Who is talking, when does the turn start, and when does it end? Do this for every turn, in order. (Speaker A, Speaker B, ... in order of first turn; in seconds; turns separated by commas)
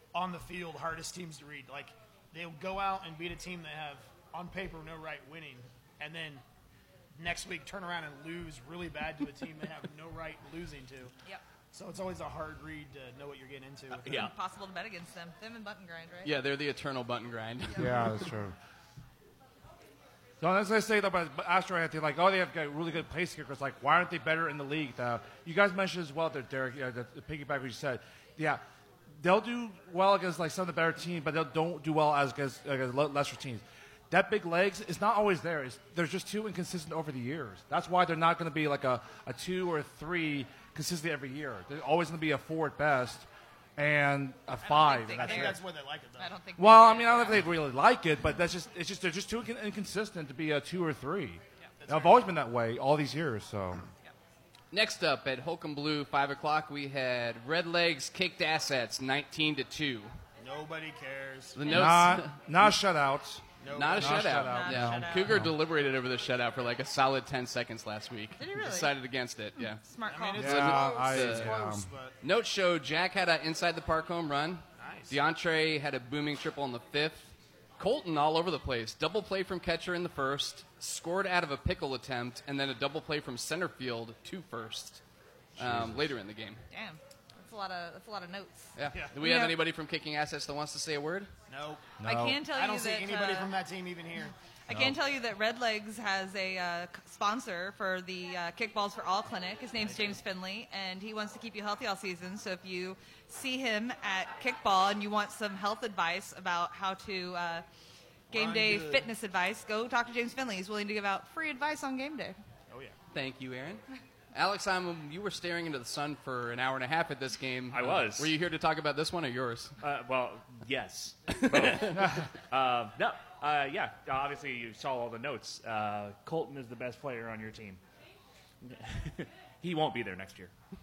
Speaker A: 0.1-6.4, Speaker A: 7.2-11.1, Speaker A: 11.7-14.3, Speaker B: 14.0-14.3, Speaker C: 14.1-16.3, Speaker D: 16.2-18.3, Speaker E: 17.8-18.6, Speaker E: 20.4-28.6, Speaker E: 29.2-45.6, Speaker C: 44.6-45.6, Speaker A: 45.1-46.3, Speaker C: 46.2-47.5, Speaker E: 46.6-53.8, Speaker A: 51.8-52.3, Speaker D: 54.7-60.1, Speaker A: 60.4-61.6, Speaker D: 61.6-62.3, Speaker E: 61.7-65.5, Speaker A: 63.6-64.5, Speaker D: 63.7-69.8, Speaker C: 64.3-65.4, Speaker C: 68.4-68.9, Speaker C: 69.7-70.5, Speaker A: 70.0-72.2, Speaker D: 70.4-71.5, Speaker E: 70.4-71.9, Speaker D: 72.2-85.0, Speaker A: 74.8-75.2, Speaker E: 85.6-86.1, Speaker D: 85.6-86.6, Speaker C: 86.7-89.6, Speaker D: 88.8-91.3, Speaker A: 91.5-94.3, Speaker E: 92.0-92.4, Speaker C: 92.0-93.5, Speaker C: 94.7-107.7, Speaker E: 94.7-95.0, Speaker A: 99.8-100.2, Speaker A: 108.3-109.1, Speaker C: 108.3-112.4, Speaker A: 112.7-113.0, Speaker D: 113.1-119.8, Speaker B: 117.7-118.3, Speaker B: 119.8-127.8, Speaker D: 121.3-122.0, Speaker B: 128.6-130.5